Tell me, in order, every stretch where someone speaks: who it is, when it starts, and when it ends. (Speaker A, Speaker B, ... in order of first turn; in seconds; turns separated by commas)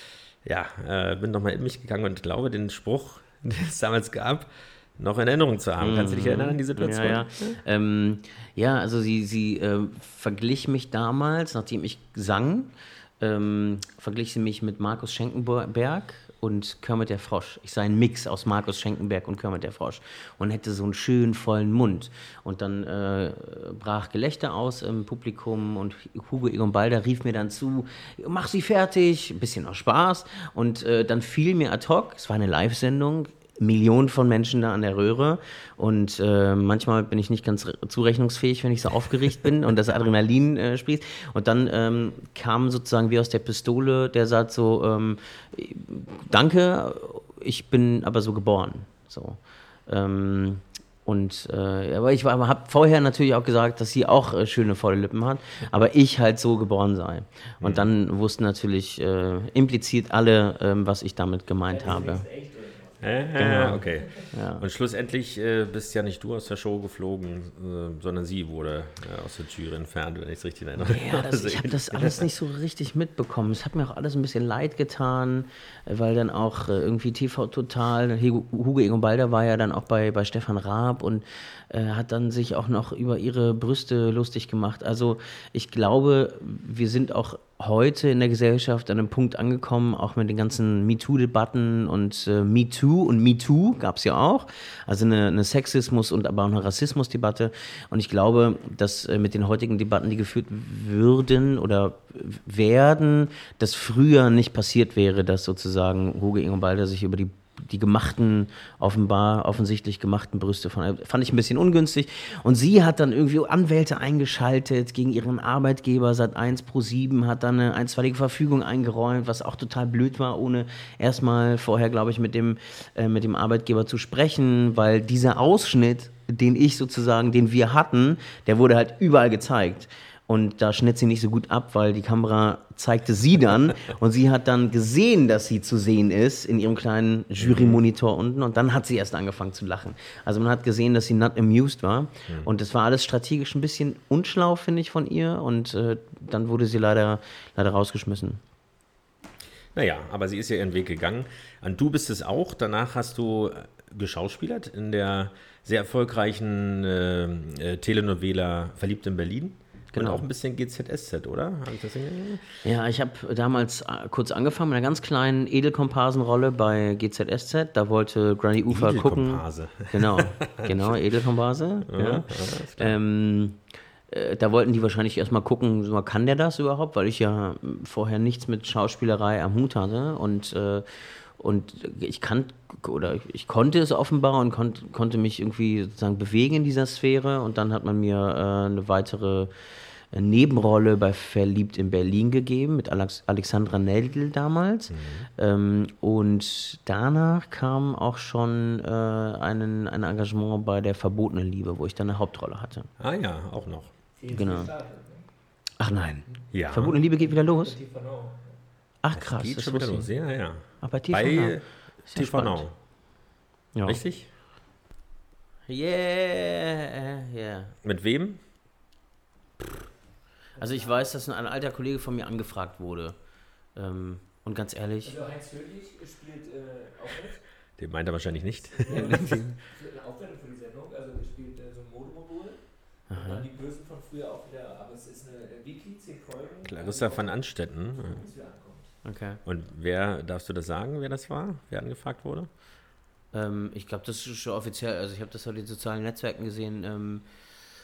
Speaker A: 0.4-7.6, Speaker B: 5.8-62.3, Speaker A: 57.6-57.9, Speaker C: 61.6-64.1, Speaker A: 63.0-72.3, Speaker B: 63.4-64.7, Speaker B: 70.8-148.4, Speaker A: 137.4-137.8, Speaker A: 149.7-162.6, Speaker B: 159.9-160.2, Speaker B: 162.6-189.5, Speaker A: 168.7-171.0, Speaker A: 171.9-172.9, Speaker B: 190.1-202.9, Speaker A: 194.9-195.3, Speaker A: 203.0-203.9, Speaker C: 204.2-205.3, Speaker B: 204.3-204.7, Speaker B: 205.8-207.8, Speaker A: 206.5-207.0, Speaker C: 206.9-208.6, Speaker B: 209.0-210.1, Speaker A: 209.1-212.8, Speaker B: 210.8-212.8, Speaker B: 213.7-214.0, Speaker A: 213.8-214.3, Speaker B: 215.7-217.7, Speaker A: 217.8-218.4, Speaker C: 220.6-221.1, Speaker B: 220.6-225.2, Speaker C: 225.0-227.6, Speaker A: 227.8-229.2, Speaker C: 228.7-239.1, Speaker B: 228.9-229.5, Speaker B: 233.1-233.5, Speaker A: 236.6-238.2, Speaker B: 239.0-239.4, Speaker A: 239.4-242.5, Speaker B: 243.3-247.3